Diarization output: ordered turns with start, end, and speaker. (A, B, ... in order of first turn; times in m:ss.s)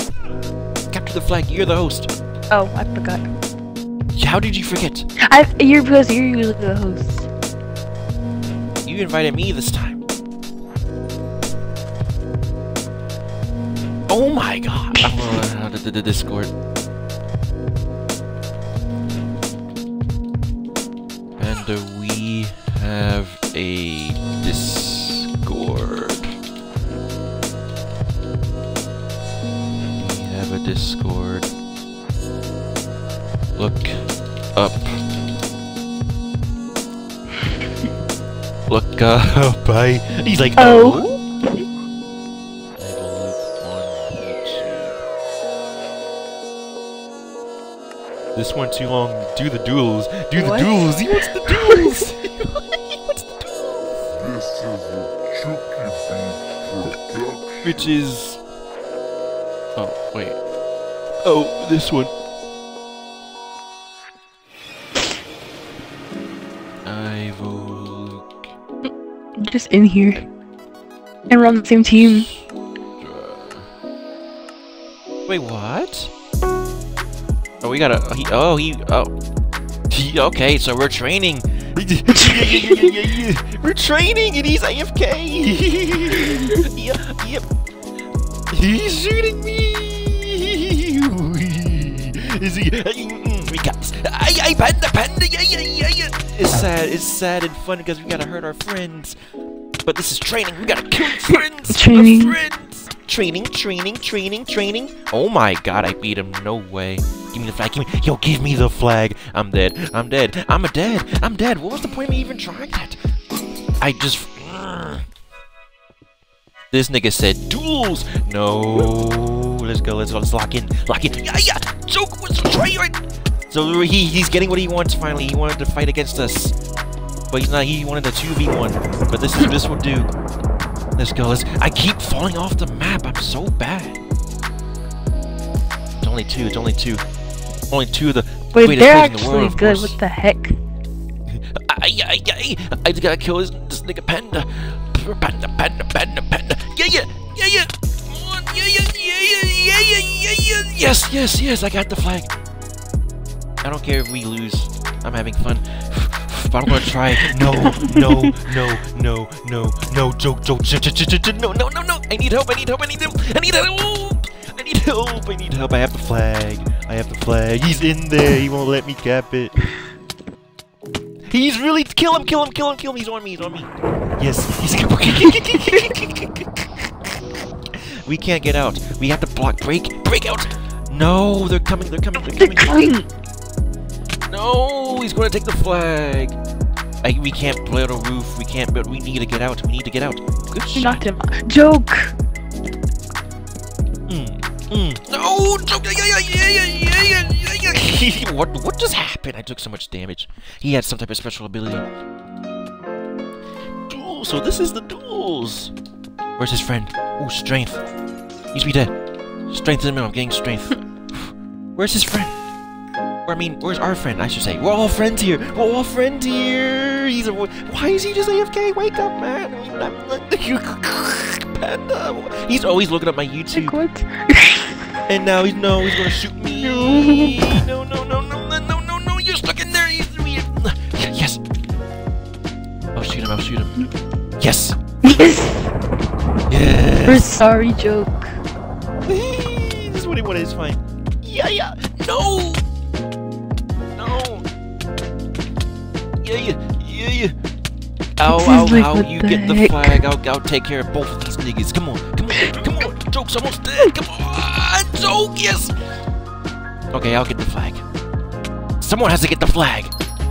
0:00.9-0:02.1 A
0:02.5-0:03.3 B
0:04.1-0:05.1 A
0:05.2-0:07.3 B
0:08.8-0:10.0 A
0:14.1-0:16.5 A
0:21.4-0:26.3 A
0:30.0-0:31.5 A
0:33.5-0:35.1 A
0:38.7-0:41.2 A
0:40.6-0:41.6 B
0:42.8-0:45.0 A
0:48.3-0:54.1 A
0:50.3-0:51.8 B
0:54.2-0:57.9 C
0:57.6-0:58.4 A
0:59.8-1:00.4 A
1:01.2-1:02.1 A
1:06.8-1:08.4 A
1:08.8-1:10.3 B
1:11.3-1:12.3 B
1:11.9-1:13.7 A
1:15.3-1:16.1 A
1:17.6-1:19.1 A
1:19.9-1:27.5 A
1:28.5-1:39.2 A
1:39.8-1:53.0 A
1:41.7-1:42.4 B
1:53.8-1:55.0 A
1:56.7-2:06.5 A
2:07.3-2:10.1 A
2:11.0-2:14.0 A
2:16.0-2:17.0 A
2:17.7-2:20.0 A
2:18.5-2:20.6 B
2:21.3-2:32.3 A
2:33.6-2:49.7 A
2:37.5-2:38.0 B
2:51.3-2:56.6 A
2:57.7-3:02.9 A
3:02.4-3:03.1 B
3:04.3-3:06.4 A
3:07.0-3:11.0 A
3:10.7-3:12.1 B
3:14.1-3:21.8 A
3:23.9-3:25.7 A
3:26.4-3:27.8 A
3:28.5-3:28.9 A
3:29.5-3:32.3 A
3:33.2-3:43.8 A
3:43.5-3:44.8 B
3:45.0-3:51.4 A
3:46.5-3:47.6 B
3:52.9-3:53.9 A
3:54.4-3:54.8 A
3:55.0-3:55.7 B
3:56.5-3:57.4 A
3:57.0-3:58.4 B
3:59.0-4:02.6 A
4:03.9-4:04.5 A
4:06.2-4:07.3 A
4:08.2-4:15.7 A
4:08.2-4:10.0 B
4:16.9-4:17.8 A
4:18.8-4:19.9 A